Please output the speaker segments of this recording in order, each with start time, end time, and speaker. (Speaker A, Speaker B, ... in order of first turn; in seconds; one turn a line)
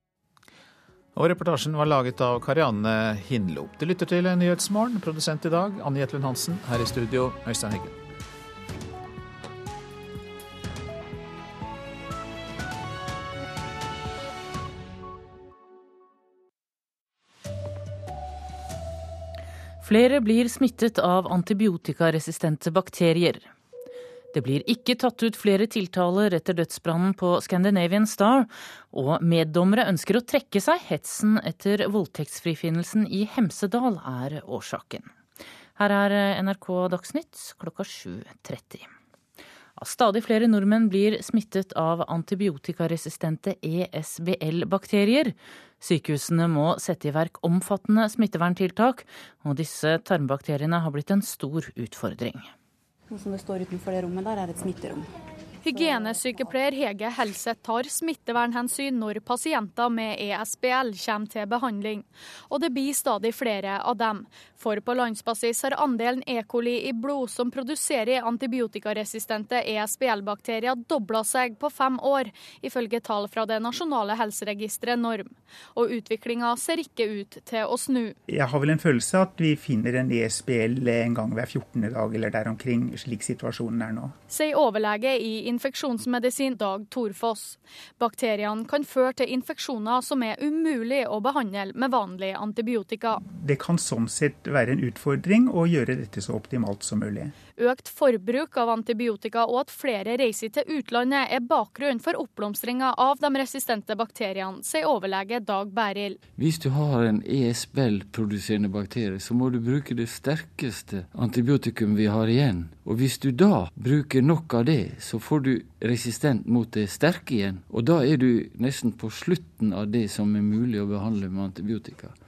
Speaker A: 1.1-8.0
Speaker B: 19.8-23.5
Speaker B: 24.3-35.1
Speaker B: 35.8-38.9
Speaker B: 39.8-52.5
Speaker C: 53.1-55.1
Speaker D: 55.7-78.2
Speaker C: 55.7-56.5
Speaker E: 78.3-84.2
Speaker D: 84.3-93.2
Speaker E: 93.2-97.3
Speaker D: 97.6-106.2
Speaker F: 106.4-122.2